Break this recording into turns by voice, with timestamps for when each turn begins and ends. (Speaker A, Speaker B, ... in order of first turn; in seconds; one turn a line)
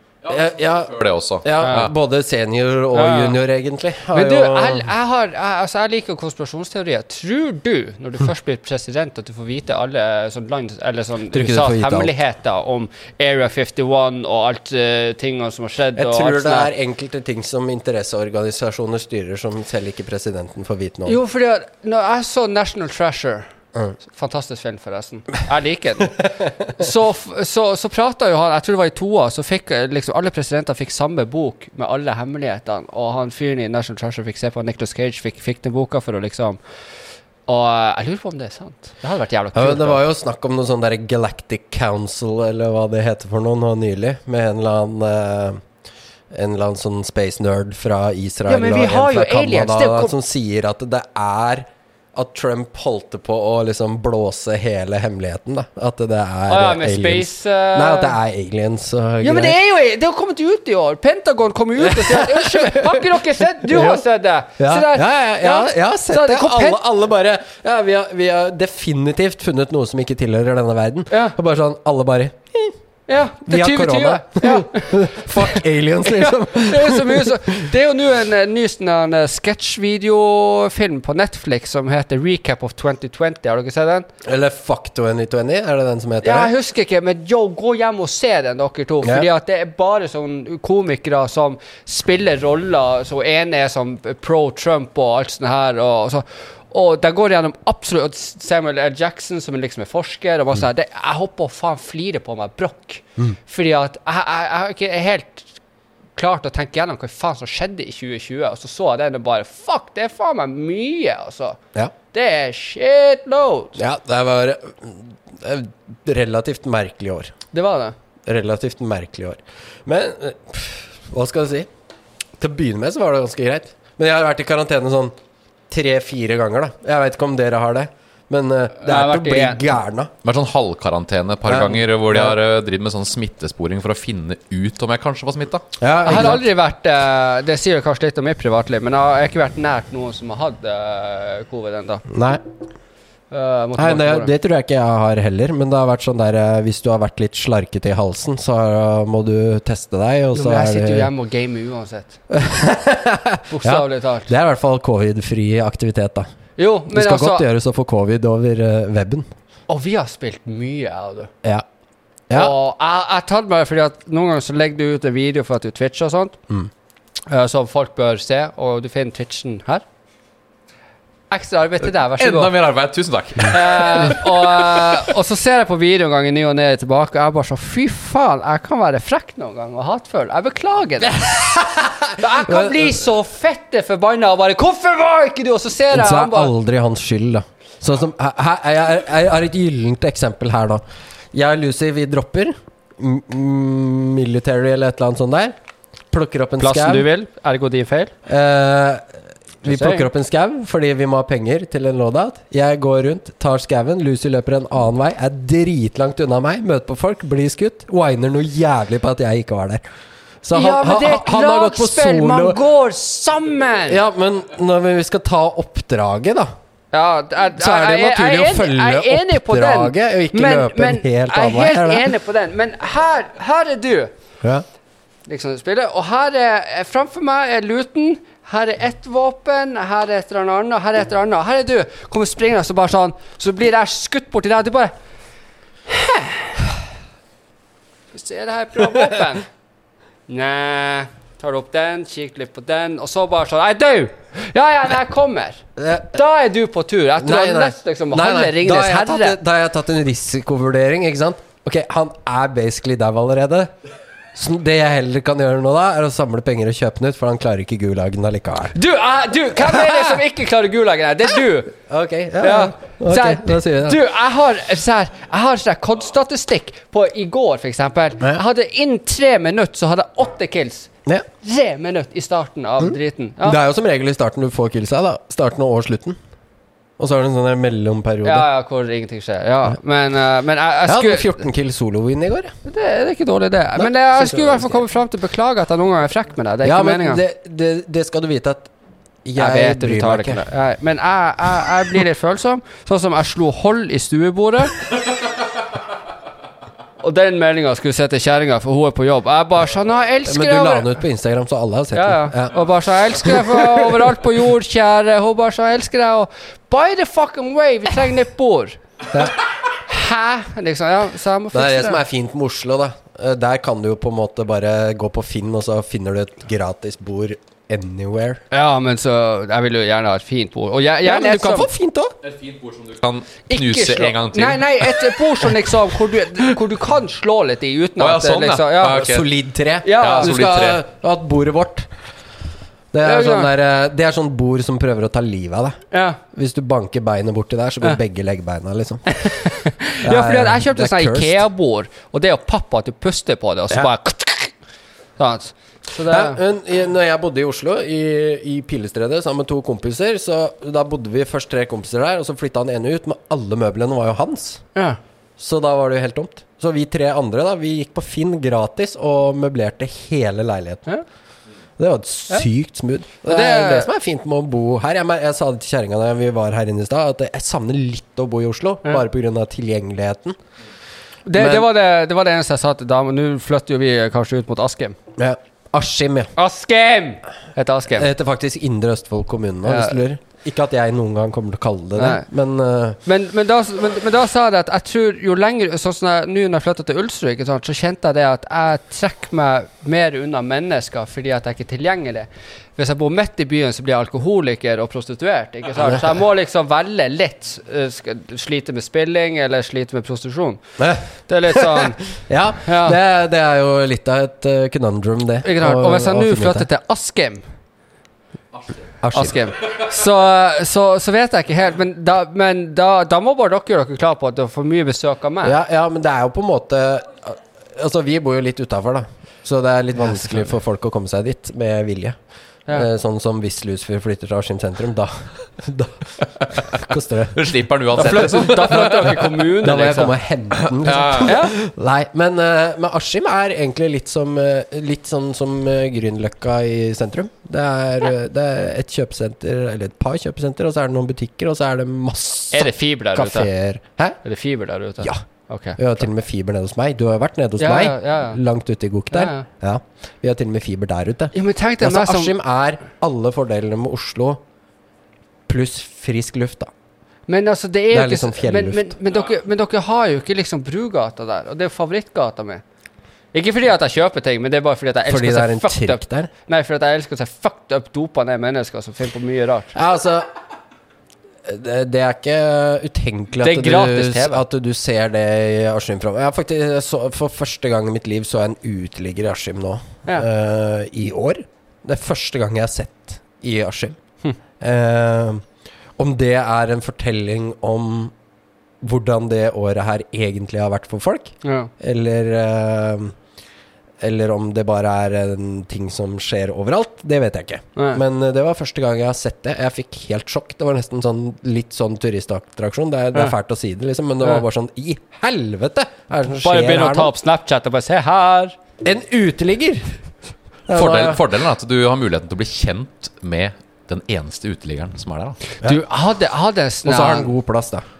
Speaker A: 0.2-1.9
Speaker B: 0.3-4.9
Speaker C: 1.6-1.9
Speaker C: 2.9-3.4
Speaker C: 4.1-16.7
Speaker B: 11.3-12.2
Speaker B: 16.0-21.2
Speaker C: 21.1-23.5
Speaker C: 24.0-36.6
Speaker C: 37.5-40.0
Speaker B: 39.5-45.6
Speaker B: 46.3-59.5
Speaker C: 48.5-50.1
Speaker C: 56.5-58.2
Speaker C: 59.2-66.8
Speaker B: 61.8-64.1
Speaker B: 64.6-72.8
Speaker C: 71.1-71.4
Speaker C: 73.1-84.1
Speaker B: 73.5-77.7
Speaker B: 84.2-86.5
Speaker C: 86.2-105.5
Speaker C: 106.2-111.6
Speaker C: 112.1-113.8
Speaker B: 113.8-117.3
Speaker C: 117.5-118.0
Speaker B: 118.3-121.7
Speaker B: 122.4-125.1
Speaker B: 125.7-130.1
Speaker C: 128.8-129.7
Speaker A: 130.2-135.8
Speaker B: 131.5-132.4
Speaker B: 135.8-136.4
Speaker C: 136.1-142.1
Speaker B: 142.1-142.4
Speaker C: 143.3-144.3
Speaker B: 143.8-151.1
Speaker C: 150.3-152.2
Speaker B: 152.3-156.3
Speaker C: 153.5-154.3
Speaker C: 156.6-157.5
Speaker B: 156.9-159.3
Speaker C: 159.7-161.3
Speaker B: 162.3-162.5
Speaker C: 162.3-166.4
Speaker C: 167.3-169.8
Speaker C: 171.3-172.5
Speaker A: 172.1-175.1
Speaker C: 173.4-181.3
Speaker B: 181.0-183.0
Speaker C: 182.1-186.5
Speaker B: 185.9-195.6
Speaker B: 196.1-197.1
Speaker C: 196.6-198.1
Speaker B: 198.3-199.1
Speaker B: 199.6-209.8
Speaker C: 199.7-200.1
Speaker B: 210.4-212.6
Speaker C: 210.5-214.0
Speaker B: 213.9-216.5
Speaker C: 216.9-224.1
Speaker B: 217.6-222.1
Speaker C: 225.3-234.9
Speaker C: 235.9-236.7
Speaker C: 238.1-239.5
Speaker C: 240.3-249.4
Speaker B: 245.8-246.2
Speaker B: 247.2-253.7
Speaker B: 254.3-258.8
Speaker C: 258.8-261.8
Speaker B: 259.6-260.2
Speaker B: 261.9-264.0
Speaker C: 262.4-270.9
Speaker C: 271.4-273.6
Speaker B: 272.8-276.2
Speaker B: 277.0-278.5
Speaker C: 278.2-281.4
Speaker B: 280.9-282.5
Speaker C: 282.7-287.2
Speaker B: 283.8-284.8
Speaker B: 286.6-288.7
Speaker B: 289.2-290.4
Speaker C: 289.4-294.9
Speaker C: 297.0-301.0
Speaker B: 300.3-304.1
Speaker C: 301.9-308.8
Speaker C: 309.9-312.0
Speaker B: 311.5-318.4
Speaker C: 318.5-321.7
Speaker B: 321.0-322.1
Speaker A: 322.2-325.7
Speaker C: 323.5-329.1
Speaker A: 328.0-329.3
Speaker B: 328.8-331.9
Speaker C: 329.8-330.4
Speaker A: 330.0-330.8
Speaker B: 332.9-339.4
Speaker C: 333.0-333.5
Speaker C: 335.9-336.2
Speaker C: 339.1-344.5
Speaker B: 340.0-341.4
Speaker C: 345.2-346.4
Speaker B: 346.1-354.6
Speaker B: 355.4-360.9
Speaker B: 361.8-370.4
Speaker C: 363.3-363.9
Speaker C: 371.3-375.0
Speaker B: 371.4-371.7
Speaker B: 375.2-376.3
Speaker C: 376.4-378.1
Speaker B: 377.9-383.0
Speaker C: 379.7-380.0
Speaker C: 382.0-382.3
Speaker C: 383.1-400.6
Speaker B: 400.8-406.7
Speaker C: 401.2-402.0
Speaker C: 402.6-403.0
Speaker C: 405.4-407.5
Speaker B: 409.0-409.4
Speaker C: 409.1-415.6
Speaker B: 415.4-422.2
Speaker B: 422.7-429.0
Speaker A: 427.4-429.4
Speaker C: 428.0-430.1
Speaker B: 429.6-444.2
Speaker A: 430.6-431.4
Speaker C: 431.3-431.5
Speaker C: 442.5-443.5
Speaker C: 444.2-445.8
Speaker B: 445.8-454.4
Speaker C: 447.6-448.4
Speaker C: 449.1-449.5
Speaker C: 451.3-452.3
Speaker B: 455.5-456.7
Speaker C: 457.3-462.6
Speaker B: 457.9-458.9
Speaker C: 463.3-469.7
Speaker B: 465.1-466.3
Speaker B: 469.7-470.3
Speaker B: 471.4-484.0
Speaker C: 473.4-474.4
Speaker B: 484.6-485.5
Speaker B: 486.0-488.1
Speaker B: 488.8-493.2
Speaker C: 491.4-491.7
Speaker B: 494.0-507.1
Speaker C: 497.8-498.0
Speaker C: 506.4-508.6
Speaker B: 508.8-509.9
Speaker B: 510.7-511.2
Speaker A: 510.7-515.4
Speaker C: 515.6-517.3
Speaker B: 516.9-517.9